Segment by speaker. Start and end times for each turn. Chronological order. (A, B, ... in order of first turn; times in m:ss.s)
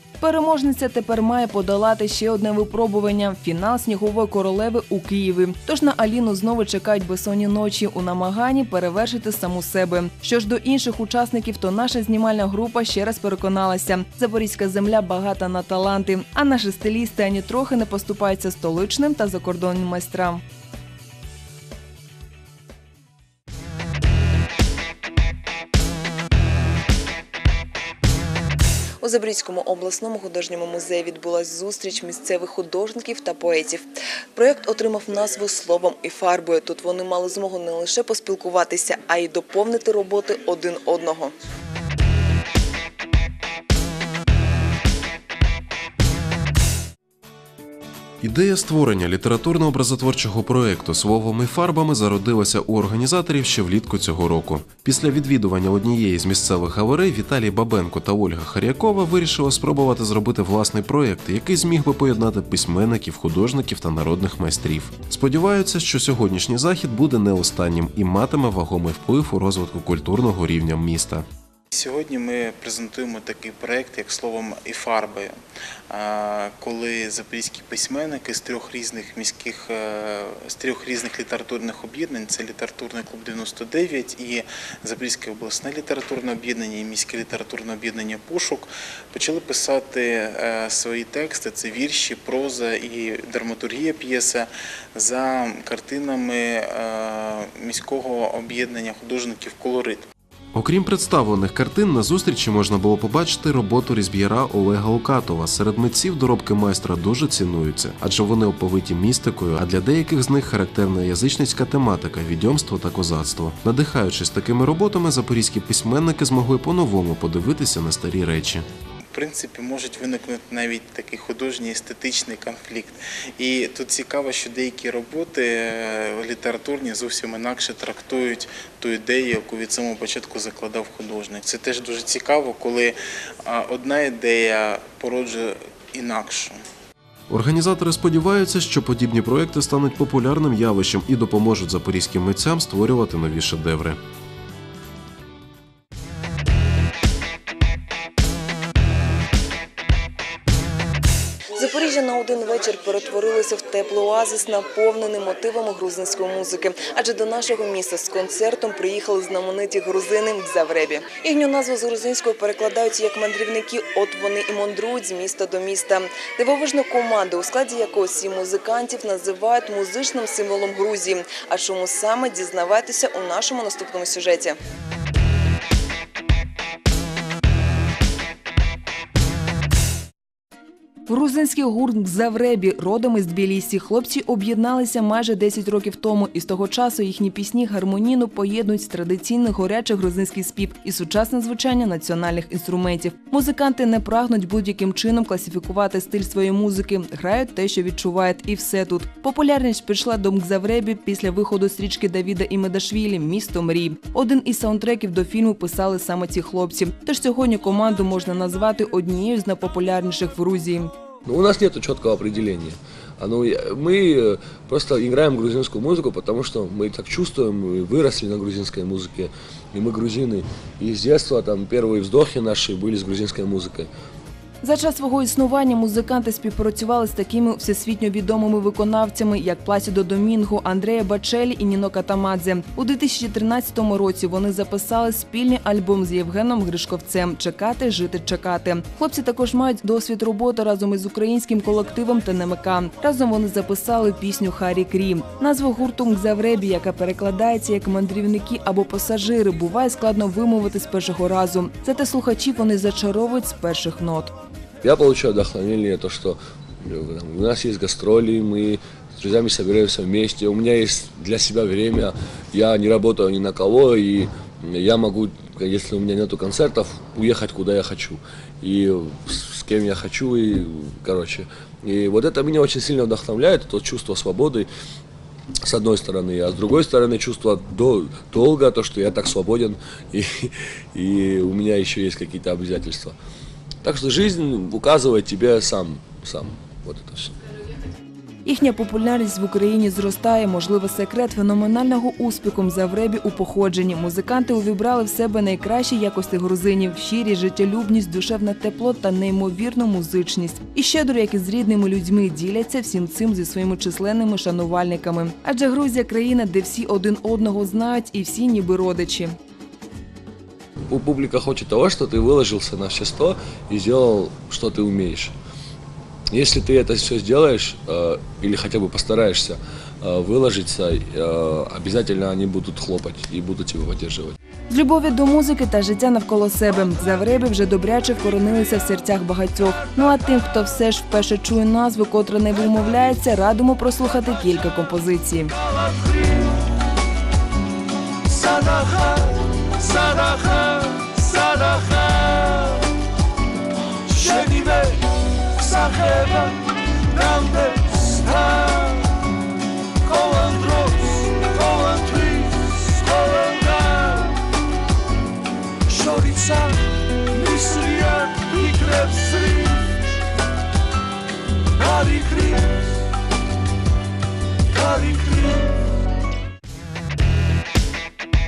0:00.2-0:20.4 A
0:29.0-0:41.3 A
0:48.2-1:11.3 B
1:11.7-1:15.3 C
1:15.9-1:40.1 C
1:40.5-1:58.7 B
1:59.1-2:16.6 C
2:17.3-2:24.0 B
2:31.6-2:54.6 A
3:01.1-3:30.9 A
3:31.3-3:43.9 D
3:44.6-4:14.3 A
4:14.8-4:34.7 D
4:35.6-4:43.2 D
4:43.8-4:47.3 D
4:48.4-5:09.4 A
5:10.9-5:15.3 D
5:16.3-5:24.4 D
5:24.7-5:35.5 A
5:39.9-5:42.6 E
5:44.2-5:44.9 E
5:45.6-5:46.5 E
5:47.2-5:48.9 E
5:50.1-5:54.2 E
5:56.0-5:56.6 E
5:57.4-5:59.6 E
6:02.1-6:02.6 E